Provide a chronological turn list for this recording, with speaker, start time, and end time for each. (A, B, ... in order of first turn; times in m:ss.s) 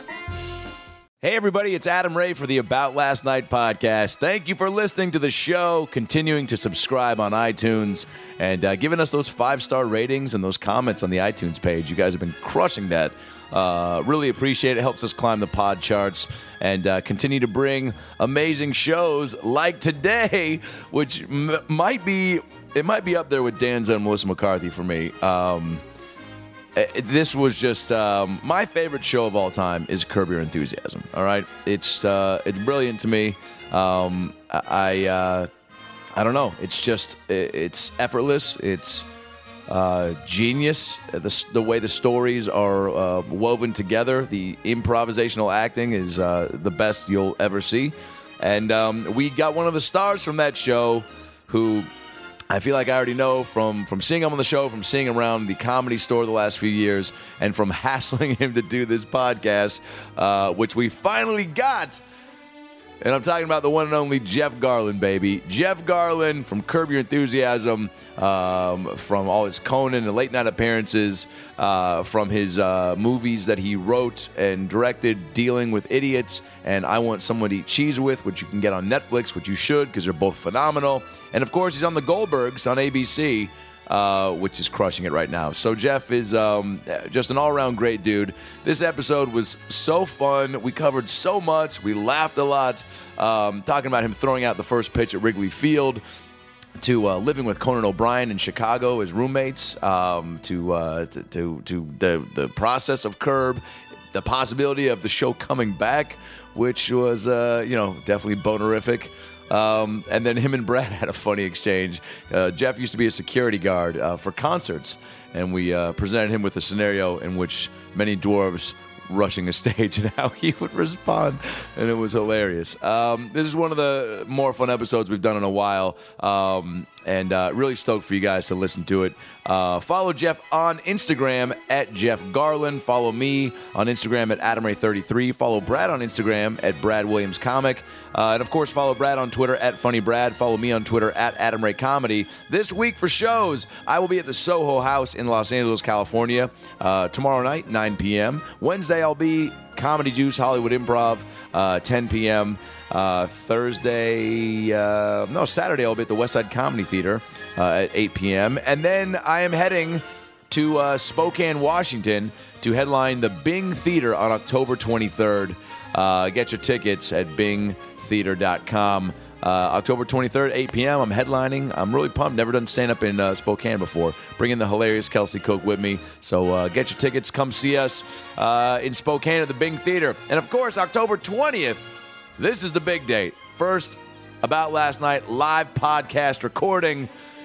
0:01.2-0:25.8 A
0:26.8-0:35.5 A
0:36.2-0:39.1 A
0:39.7-0:51.9 A
0:52.5-1:02.0 A
1:03.0-1:36.0 A
1:36.8-1:43.6 A
1:44.1-3:07.1 A